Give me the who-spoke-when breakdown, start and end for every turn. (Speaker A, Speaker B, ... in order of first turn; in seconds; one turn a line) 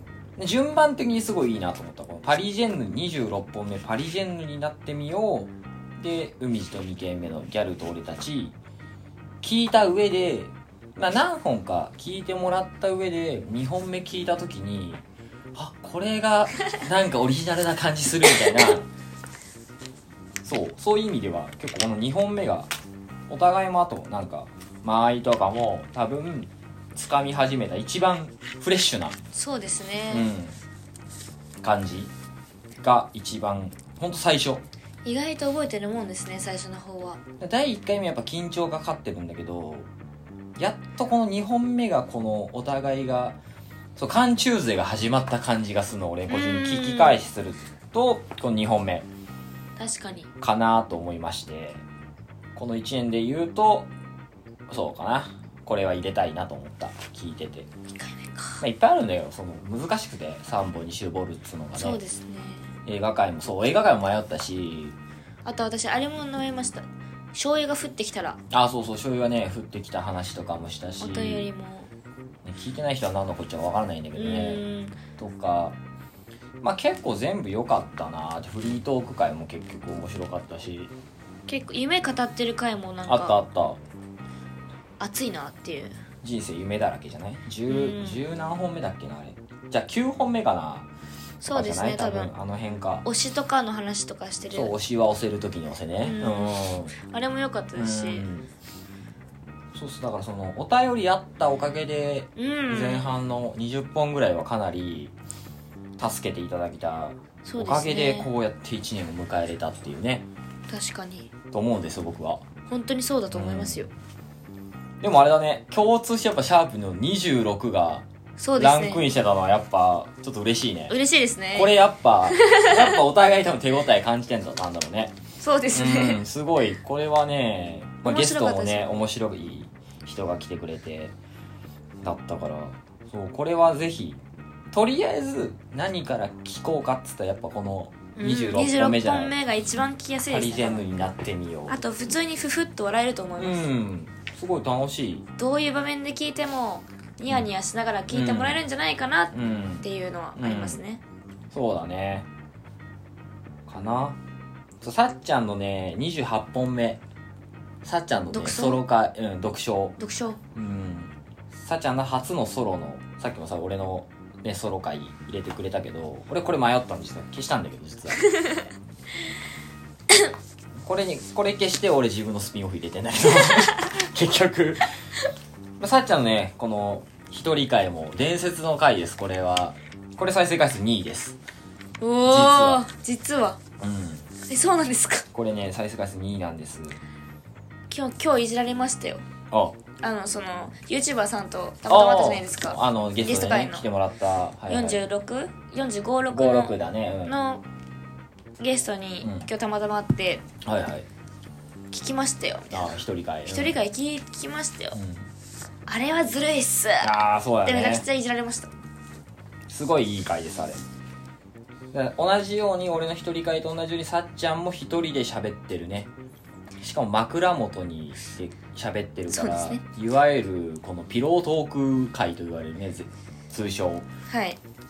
Speaker A: 0.4-8.6
Speaker A: 9.4-15.0
Speaker A: 15.6-18.9
Speaker A: 20.4-22.7
Speaker A: 23.3-29.2
Speaker B: 29.3-30.3
Speaker A: 30.1-30.6
Speaker A: 31.6-32.1
Speaker A: 32.8-34.6
Speaker B: 35.0-37.2
Speaker A: 37.4-39.9
Speaker A: 40.6-43.4
Speaker A: 44.0-49.1
Speaker B: 46.3-47.2
Speaker B: 49.8-50.3
Speaker A: 50.4-51.8
Speaker A: 52.5-53.9
Speaker A: 54.7-57.7
Speaker B: 57.9-58.6
Speaker A: 58.6-62.0
Speaker B: 61.8-62.7
Speaker A: 62.9-65.0
Speaker B: 65.5-68.4
Speaker A: 68.5-71.5
Speaker B: 71.0-71.9
Speaker A: 72.4-74.6
Speaker B: 74.2-75.0
Speaker A: 75.2-75.8
Speaker A: 76.6-80.9
Speaker B: 81.5-83.4
Speaker A: 83.1-83.8
Speaker B: 85.0-86.0
Speaker A: 86.2-90.9
Speaker B: 87.7-88.2
Speaker B: 91.4-92.3
Speaker A: 91.5-93.1
Speaker B: 93.0-94.7
Speaker A: 94.5-97.0
Speaker B: 96.0-98.3
Speaker A: 97.8-98.5
Speaker A: 99.7-105.1
Speaker B: 102.4-103.2
Speaker A: 106.0-110.3
Speaker B: 107.4-108.3
Speaker B: 110.7-111.3
Speaker A: 111.5-112.4
Speaker B: 112.7-113.9
Speaker A: 113.3-113.9
Speaker A: 115.0-118.0
Speaker B: 118.4-119.0
Speaker A: 118.6-121.0
Speaker B: 120.9-121.7
Speaker A: 121.5-125.2
Speaker B: 122.3-123.0
Speaker B: 125.4-126.2
Speaker A: 125.7-131.2
Speaker B: 128.0-128.9
Speaker A: 132.0-134.2
Speaker A: 134.7-139.4
Speaker B: 138.2-141.0
Speaker A: 140.3-141.8
Speaker B: 141.7-143.7
Speaker A: 143.4-145.3
Speaker B: 145.4-151.0
Speaker A: 148.1-148.6
Speaker A: 149.3-150.8
Speaker A: 151.5-152.3
Speaker A: 153.7-154.2
Speaker A: 154.8-157.0
Speaker A: 157.8-160.0
Speaker B: 158.3-158.8
Speaker B: 160.0-160.4
Speaker A: 160.5-168.3
Speaker B: 168.3-168.6
Speaker A: 170.8-174.9
Speaker A: 175.8-181.4
Speaker B: 182.0-183.6
Speaker A: 182.3-182.8
Speaker A: 183.8-184.3
Speaker B: 184.4-185.3
Speaker A: 185.3-187.0
Speaker B: 187.9-189.2
Speaker A: 189.5-189.8
Speaker B: 190.0-193.8
Speaker A: 191.9-195.0
Speaker B: 194.7-197.7
Speaker A: 196.3-197.4
Speaker B: 198.6-200.4
Speaker A: 199.2-199.5
Speaker A: 200.6-201.1
Speaker B: 201.9-204.9
Speaker A: 202.7-203.8
Speaker A: 204.9-205.3
Speaker B: 205.9-207.1
Speaker A: 207.0-208.1
Speaker B: 207.7-208.7
Speaker A: 209.7-210.8
Speaker A: 211.9-216.1
Speaker A: 216.8-224.1
Speaker B: 219.3-219.8
Speaker B: 224.3-224.6